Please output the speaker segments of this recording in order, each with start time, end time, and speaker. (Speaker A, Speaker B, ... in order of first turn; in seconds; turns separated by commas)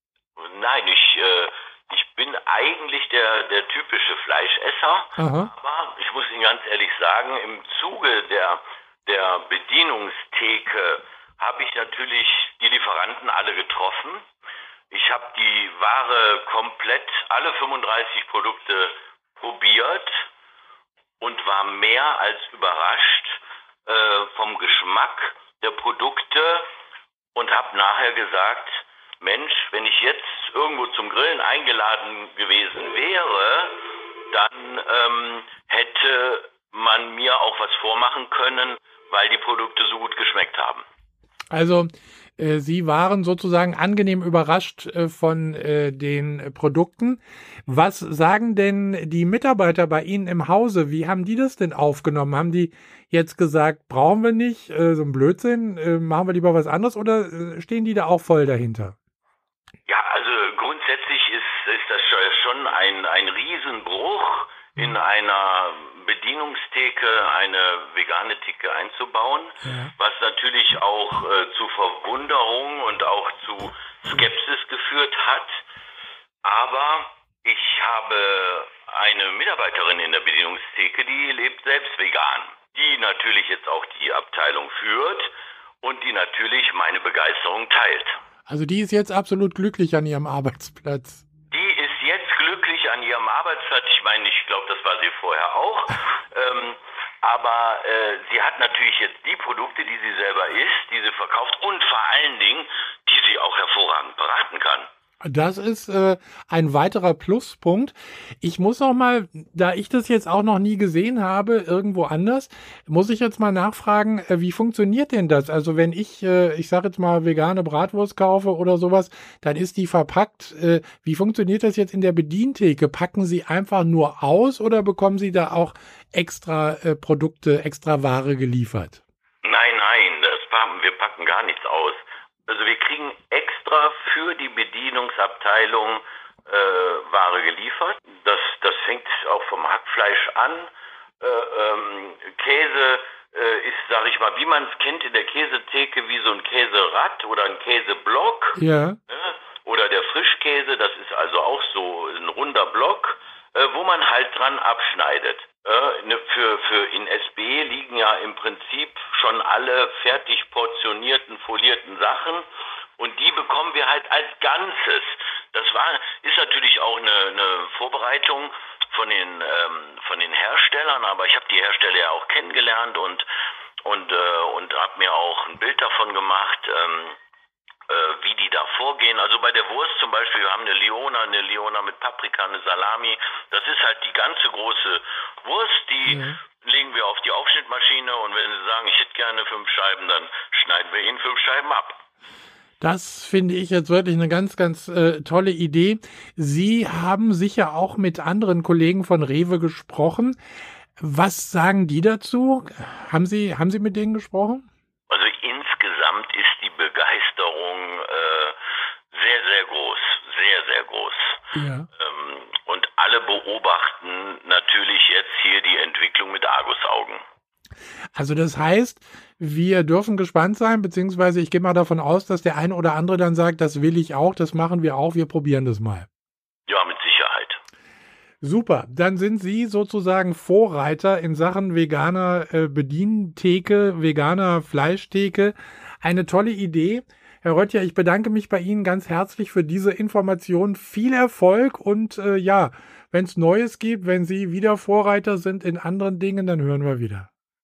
Speaker A: 0.4-14.2, Speaker B: 5.2-5.5, Speaker A: 14.9-20.2, Speaker A: 21.2-26.7, Speaker A: 27.3-33.8, Speaker A: 34.3-40.8, Speaker B: 41.5-59.0, Speaker A: 59.9-75.5, Speaker B: 69.6-69.9, Speaker A: 76.4-85.3, Speaker A: 85.8-88.1, Speaker B: 88.5-91.2, Speaker A: 91.5-104.9, Speaker B: 105.2-129.0, Speaker A: 129.4-162.4, Speaker B: 148.6-149.0, Speaker A: 163.0-173.2, Speaker A: 173.8-177.2, Speaker A: 177.9-192.0, Speaker B: 186.1-186.4, Speaker B: 192.8-200.4, Speaker B: 201.0-204.6, Speaker A: 205.1-208.6, Speaker A: 209.1-211.4, Speaker B: 211.5-211.9, Speaker A: 211.9-217.2, Speaker B: 218.1-226.1, Speaker A: 226.7-227.6, Speaker B: 228.4-247.3